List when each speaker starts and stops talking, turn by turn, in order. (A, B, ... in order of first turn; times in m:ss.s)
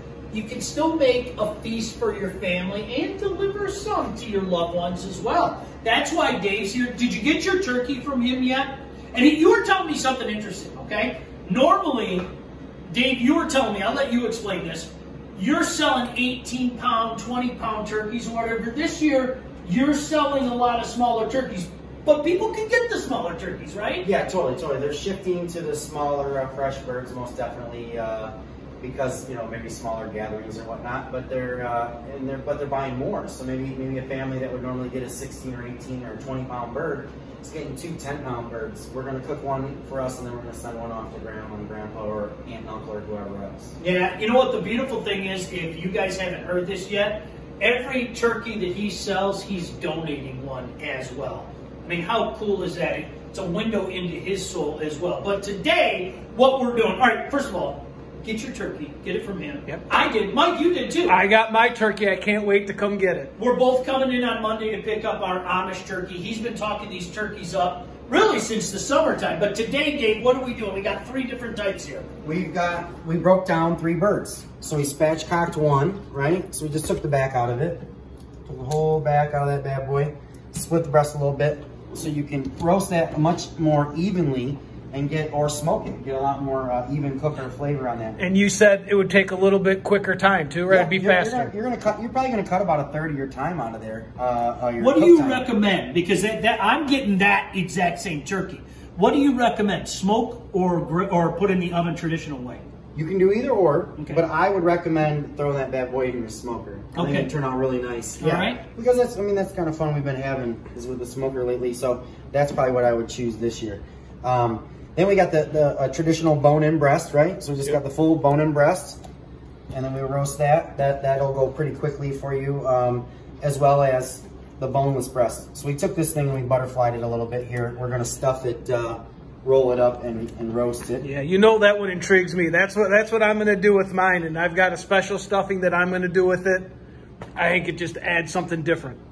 0:00.3-0:12.3 A
0:12.9-0:24.0 A
0:24.0-0:43.7 B
0:43.8-1:01.2 A
1:01.1-1:03.3 C
1:03.4-1:12.0 A
1:12.2-1:17.8 B
1:18.4-1:28.2 B
1:28.2-1:31.5 C
1:30.7-1:35.4 B
1:34.8-1:42.6 A
1:42.9-1:59.0 B
1:44.0-1:44.2 A
1:46.9-1:47.3 A
1:48.2-1:48.6 A
1:59.7-2:11.0 B
2:11.0-2:16.7 C
2:17.4-2:19.0 C